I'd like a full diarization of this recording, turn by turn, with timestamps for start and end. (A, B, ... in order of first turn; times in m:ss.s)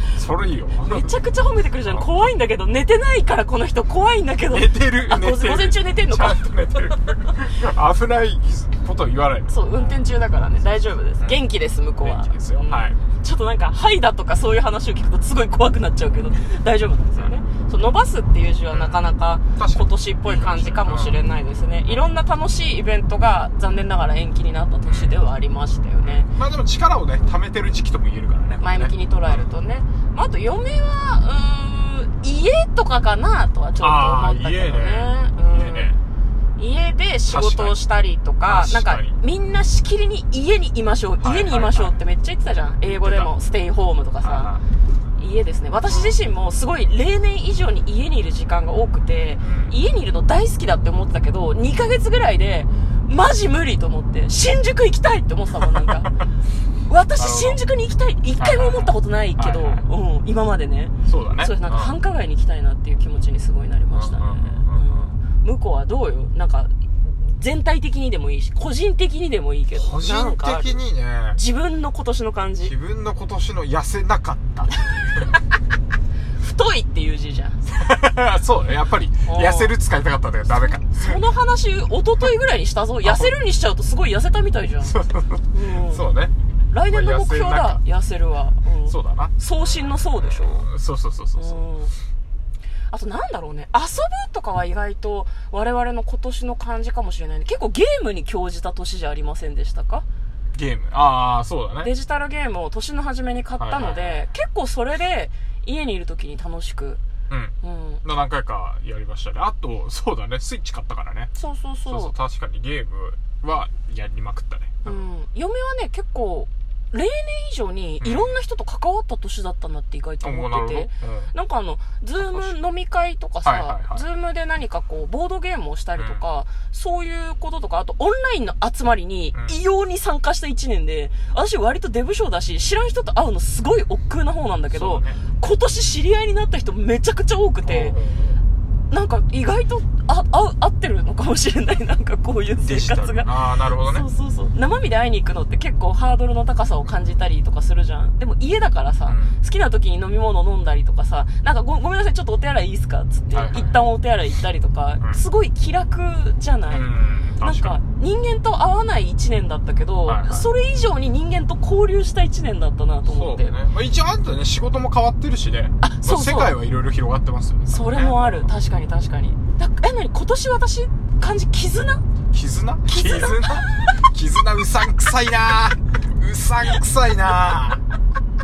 0:00.1-0:01.1 A
0:00.8-0:06.9 B
0:01.8-0:02.2 A
0:04.5-0:11.4 A
0:09.5-0:26.3 B
0:12.0-0:13.0 A
0:18.7-0:21.2 A
0:24.8-0:25.2 A
0:26.0-0:29.5 A
0:28.6-0:35.9 B
0:33.8-0:36.0 A
0:36.6-0:44.5 B
0:37.3-0:37.8 A
0:38.4-0:39.2 A
0:41.2-0:42.0 A
0:42.8-0:43.3 A
0:44.2-0:44.6 A
0:45.2-0:56.1 B
0:45.9-0:46.2 A
0:49.4-0:49.8 A
0:55.6-0:56.0 A
0:56.9-1:10.8 B
0:57.1-0:57.6 A
0:58.4-0:59.8 A
1:01.0-1:01.9 A
1:03.9-1:05.1 A
1:09.7-1:11.4 A
1:11.3-1:12.7 B
1:12.6-1:15.3 A
1:16.4-1:17.7 B
1:17.8-1:21.2 A
1:19.2-1:19.7 B
1:20.5-1:25.0 B
1:23.0-1:23.4 A
1:24.8-1:26.3 A
1:25.5-1:26.0 B
1:26.7-1:30.7 B
1:26.9-1:27.8 A
1:28.9-1:31.6 A
1:31.4-1:31.9 B
1:32.9-1:40.0 B
1:40.5-1:41.9 A
1:41.8-1:47.0 B
1:43.6-1:44.2 A
1:47.3-1:51.3 A
1:47.6-1:48.0 B
1:51.4-1:52.1 B
1:51.9-1:55.0 A
1:54.8-2:18.0 B
1:58.0-1:58.4 A
2:00.2-2:01.3 A
2:02.2-2:02.5 A
2:03.4-2:04.0 A
2:06.0-2:06.2 A
2:14.7-2:15.2 A
2:17.6-2:18.4 A
2:18.9-2:36.9 B
2:22.6-2:24.1 A
2:29.0-2:29.4 A
2:33.3-2:33.8 A
2:36.7-2:37.8 A
2:37.4-2:43.5 B
2:40.0-2:40.5 A
2:43.0-2:48.5 A
2:45.8-2:46.5 B
2:47.7-2:52.0 B
2:52.3-2:57.8 A
2:52.8-2:54.0 B